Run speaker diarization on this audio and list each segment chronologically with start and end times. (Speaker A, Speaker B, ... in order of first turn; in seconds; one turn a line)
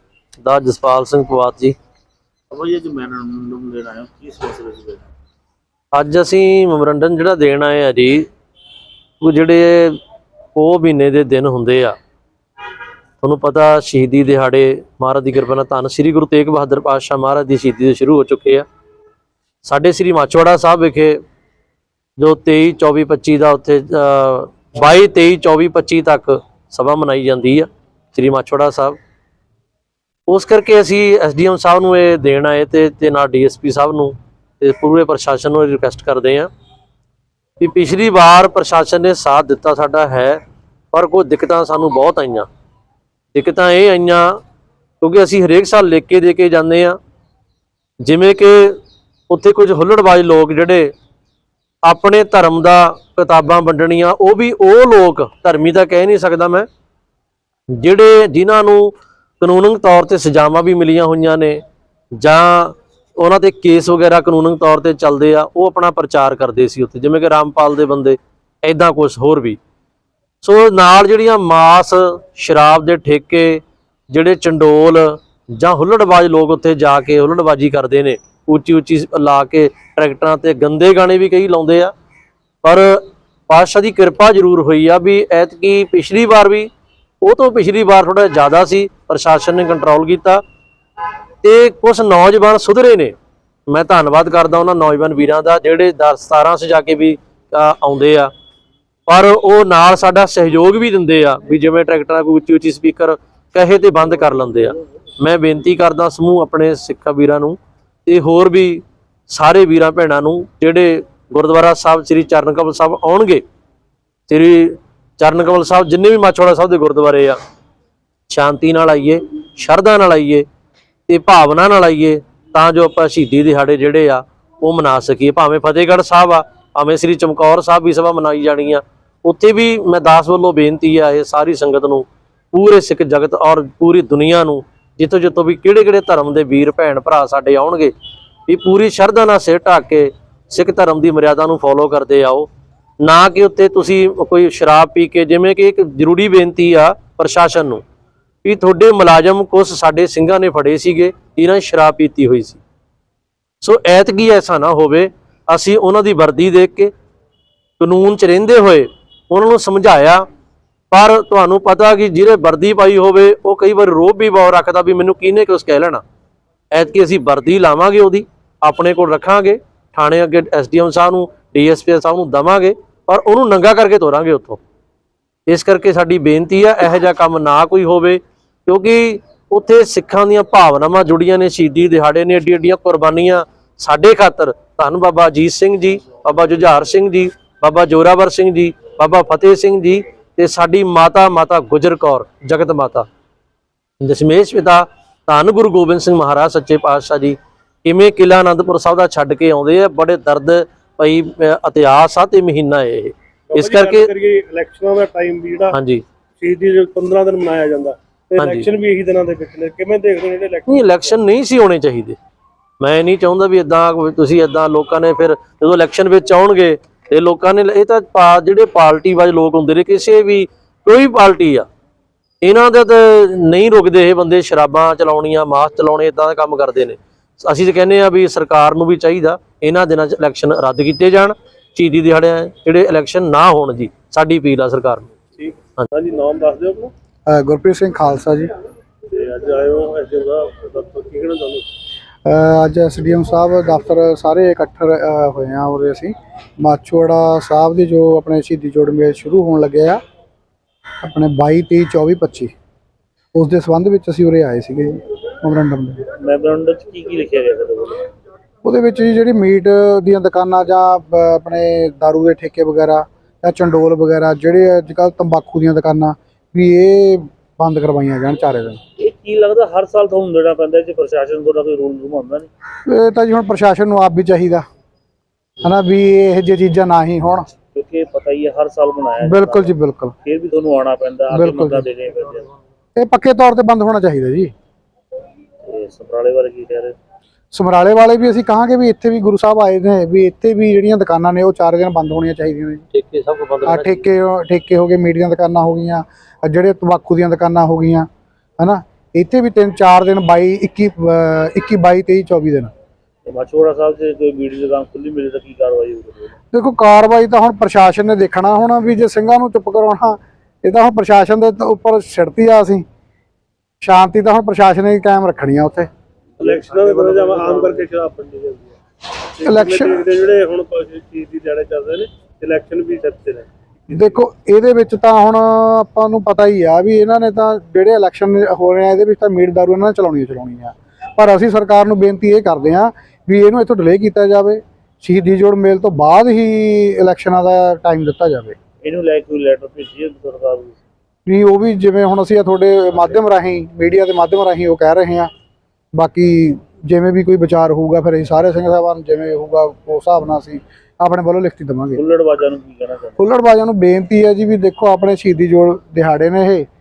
Speaker A: 0.4-1.8
Speaker B: 2.5-5.1
Speaker A: 5.9-8.3
Speaker A: 9.2-10.0
Speaker A: 10.6-11.9
Speaker A: 13.2-18.6
Speaker A: 19.6-21.2
Speaker A: 22.2-29.0
Speaker A: 30.3-36.5
Speaker A: 37.6-40.4
Speaker A: 40.9-42.5
Speaker A: 43.3-44.4
Speaker A: 45.0-47.0
Speaker A: 48.0-48.8
Speaker A: 49.3-50.9
Speaker A: 51.9-56.7
Speaker A: 57.7-61.6
Speaker A: 62.2-69.6
Speaker A: 70.4-81.9
Speaker A: 82.6-86.7
Speaker A: 87.2-90.4
Speaker A: 91.4-93.1
Speaker A: 93.7-98.3
Speaker A: 99.1-113.4
Speaker A: 114.3-117.4
Speaker A: 118.3-120.5
Speaker A: 121.1-137.9
Speaker A: 138.5-142.5
Speaker A: 143.0-147.8
Speaker A: 148.4-152.6
Speaker A: 153.6-156.9
Speaker A: 157.8-160.2
Speaker A: 160.9-166.0
Speaker A: 166.7-174.6
Speaker A: 175.5-193.1
Speaker A: 194.0-204.1
Speaker C: 203.5-205.8
Speaker A: 205.7-206.0
Speaker C: 206.4-210.8
Speaker A: 208.4-208.7
Speaker A: 210.7-212.2
Speaker A: 212.8-221.7
Speaker A: 222.4-235.1
Speaker C: 235.4-236.9
Speaker D: 237.3-238.5
Speaker C: 239.1-241.7
Speaker D: 242.2-250.0
Speaker D: 251.0-252.5
Speaker D: 253.3-256.0
Speaker B: 256.2-258.1
Speaker D: 258.6-268.8
Speaker B: 269.0-272.5
Speaker D: 272.9-274.6
Speaker D: 275.6-277.5
Speaker B: 277.7-282.5
Speaker D: 279.2-280.1
Speaker D: 281.3-281.8
Speaker D: 282.9-284.5
Speaker B: 285.6-286.9
Speaker D: 287.5-292.8
Speaker A: 292.9-294.0
Speaker D: 293.6-298.1
Speaker D: 298.6-302.7
Speaker B: 303.2-306.3
Speaker D: 306.5-312.8
Speaker D: 313.8-315.9
Speaker C: 316.4-318.7
Speaker B: 316.4-317.7
Speaker C: 319.3-324.1
Speaker D: 319.4-320.0
Speaker D: 323.9-338.6
Speaker B: 338.8-340.8
Speaker D: 341.2-345.3
Speaker D: 345.9-352.0
Speaker B: 351.9-353.2
Speaker D: 353.2-356.6